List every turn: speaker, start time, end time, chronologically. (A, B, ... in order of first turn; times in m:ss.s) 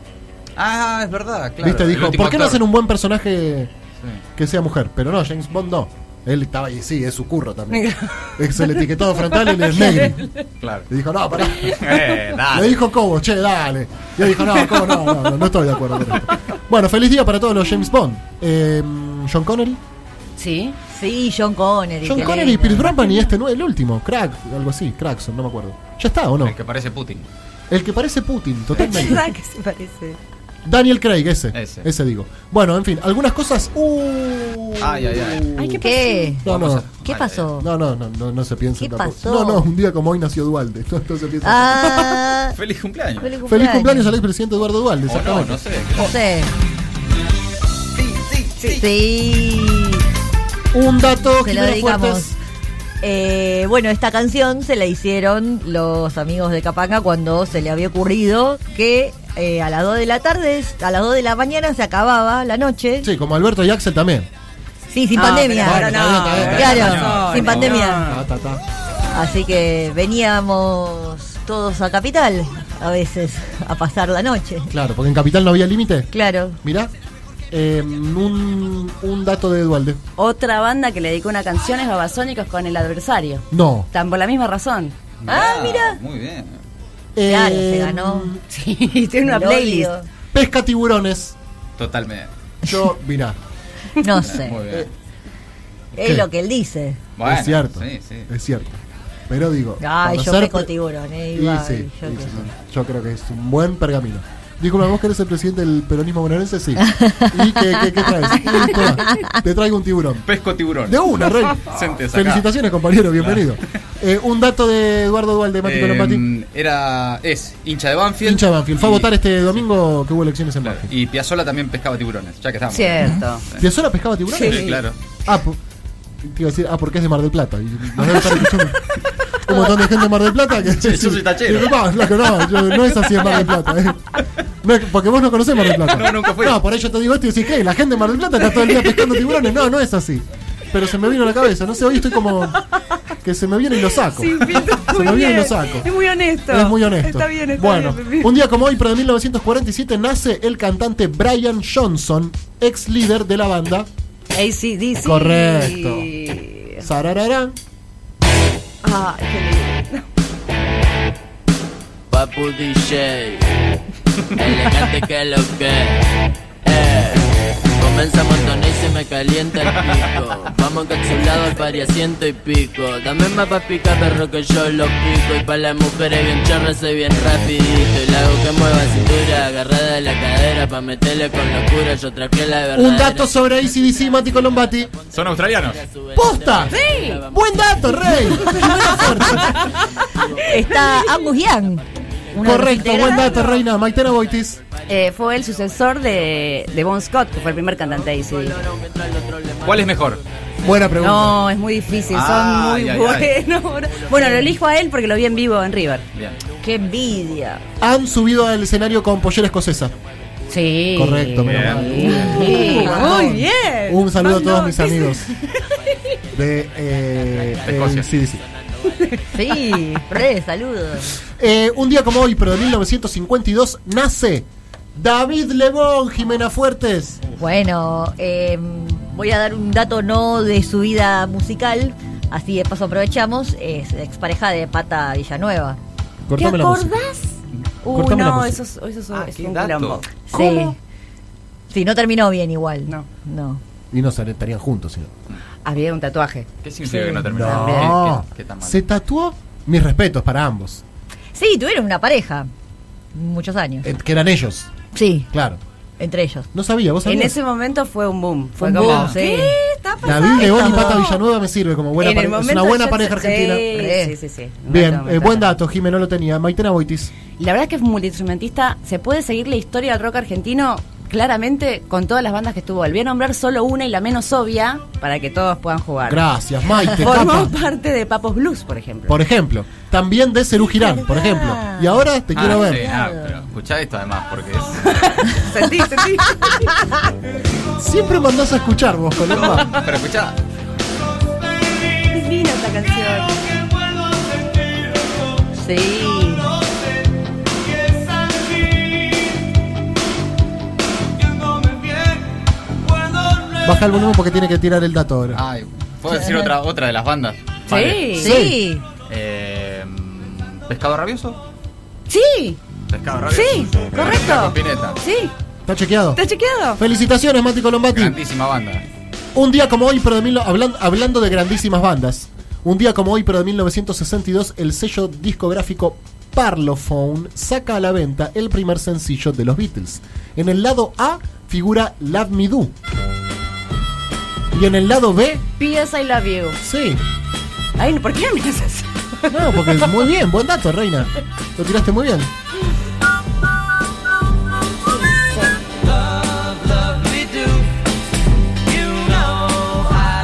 0:00.6-0:02.6 A
0:01.6-0:03.7 B
0:04.4-0:10.3 B
0:07.7-0:10.3 C
0:10.6-0:10.9 A
0:10.9-0:19.8 B
0:11.6-0:12.9 A
0:14.6-0:15.3 C
0:20.4-0:20.8 C
0:20.9-0:23.0 D
0:22.0-0:26.6 B
0:22.2-0:23.2 C
0:26.4-0:27.3 A
0:27.7-0:29.3 B
0:28.8-0:30.2 C
0:30.6-0:35.8 B
0:31.5-0:31.9 A
0:34.8-0:35.6 A
0:35.6-0:36.4 C
0:35.8-0:36.5 D
0:36.4-0:36.9 B
0:36.4-0:37.5 A
0:37.0-0:37.7 D
0:37.6-0:42.2 B
0:38.8-0:39.7 D
0:41.4-0:42.6 D
0:42.5-0:43.3 A
0:43.2-0:44.1 D
0:43.4-0:45.6 B
0:45.1-0:46.2 A
0:46.0-0:46.5 D
0:48.0-0:48.9 A
0:48.6-0:50.0 D
0:50.7-0:52.4 B
0:51.4-0:52.3 D
0:53.0-1:03.1 D
1:03.0-1:04.3 B
1:04.9-1:08.0 D
1:05.1-1:08.1 C
1:05.6-1:08.6 B
1:06.2-1:08.1 A
1:09.1-1:14.7 D
1:14.7-1:16.1 B
1:16.1-1:16.6 D
1:16.6-1:16.9 B
1:17.5-1:20.0 B
1:20.2-1:25.0 C
1:23.5-1:23.9 B
1:25.2-1:26.6 A
1:25.3-1:26.0 D
1:27.2-1:28.4 B
1:27.2-1:28.3 D
1:28.5-1:29.9 C
1:29.2-1:30.1 D
1:30.3-1:31.4 B
1:31.8-1:32.3 A
1:32.6-1:33.4 B
1:34.0-1:34.8 D
1:34.2-1:34.9 A
1:36.0-1:37.0 D
1:36.0-1:36.3 B
1:37.2-1:38.3 A
1:37.2-1:38.8 B
1:39.3-1:40.7 B
1:39.8-1:42.5 D
1:41.3-1:50.3 B
1:46.8-1:49.3 D
1:50.3-1:52.5 A
1:50.8-1:56.2 B
1:53.2-1:53.6 A
1:55.6-1:59.6 A
1:58.2-2:00.9 B
2:00.6-2:03.6 A
2:02.7-2:03.4 C
2:03.6-2:05.6 B
2:04.3-2:04.8 C
2:04.4-2:05.0 A
2:06.2-2:22.7 B
2:10.6-2:12.3 A
2:15.6-2:16.6 A
2:18.8-2:19.4 C
2:23.2-2:25.9 B
2:23.9-2:28.3 C
2:26.5-2:33.9 B
2:34.3-2:36.9 C
2:35.0-2:36.1 B
2:36.8-2:37.6 B
2:38.8-2:40.1 C
2:42.1-2:43.7 E
2:44.3-2:46.0 E
2:46.6-3:22.1 E
2:49.7-2:50.1 A
3:02.7-3:04.9 B
3:05.1-3:05.8 A
3:06.1-3:09.7 B
3:06.7-3:07.2 C
3:09.5-3:11.0 C
3:10.5-3:13.4 D
3:12.4-3:14.6 B
3:12.9-3:13.6 C
3:14.9-3:18.6 C
3:19.6-3:20.2 A
3:20.6-3:21.4 B
3:21.0-3:26.1 C
3:22.1-3:23.4 A
3:23.3-3:24.6 E
3:24.2-3:24.5 D
3:26.1-3:26.4 A
3:26.5-3:27.8 E
3:26.6-3:27.6 D
3:27.8-3:29.9 B
3:29.9-3:30.6 E
3:30.5-3:35.8 C
3:30.9-3:35.4 B
3:31.4-3:32.5 A
3:32.1-3:33.3 D
3:35.8-3:40.2 E
3:36.3-3:38.4 B
3:37.6-3:38.1 A
3:39.0-3:39.5 C
3:39.3-3:41.1 D
3:41.4-3:47.2 B
3:47.4-3:55.8 D
3:56.3-3:57.0 B
3:56.4-4:00.7 C
3:57.9-3:58.6 B
3:59.1-4:00.0 A
4:00.3-4:00.8 D
4:00.5-4:00.7 B
4:01.7-4:03.6 D
4:03.9-4:05.1 B
4:05.6-4:08.0 C
4:06.6-4:08.8 A
4:07.3-4:10.8 B
4:11.3-4:12.5 D
4:13.1-4:13.9 D
4:13.8-4:14.7 B
4:14.9-4:15.3 D
4:15.3-4:15.6 B
4:16.0-4:16.5 D
4:16.5-4:17.4 B
4:17.0-4:21.2 C
4:18.6-4:19.6 D
4:18.8-4:19.2 A
4:20.0-4:23.7 B
4:20.3-4:21.1 D
4:22.0-4:25.5 C
4:23.7-4:24.2 D
4:24.7-4:27.1 B
4:27.4-4:36.3 C
4:36.0-4:37.5 B
4:36.9-4:39.2 C
4:39.1-4:42.9 B
4:40.7-4:43.4 D
4:42.3-4:45.0 A
4:44.9-4:46.9 C
4:47.8-4:49.8 B
4:49.3-4:50.4 A
4:52.1-4:53.5 C
4:55.5-4:56.5 D
5:03.6-5:05.4 B
5:05.3-5:08.2 A
5:06.1-5:06.5 D
5:07.7-5:08.4 C
5:08.2-5:08.6 B
5:08.2-5:08.8 D
5:09.1-5:11.4 A
5:12.1-5:12.6 C
5:12.9-5:15.0 A
5:13.3-5:15.3 C
5:15.7-5:16.2 B
5:16.2-5:16.8 C
5:16.8-5:18.2 B
5:17.9-5:18.8 A
5:19.4-5:32.7 B
5:34.5-5:35.4 B
5:35.6-5:36.6 C
5:36.6-5:37.0 B
5:37.8-5:40.1 C
5:39.3-5:42.3 B
5:44.8-5:45.8 C
5:47.2-5:47.6 C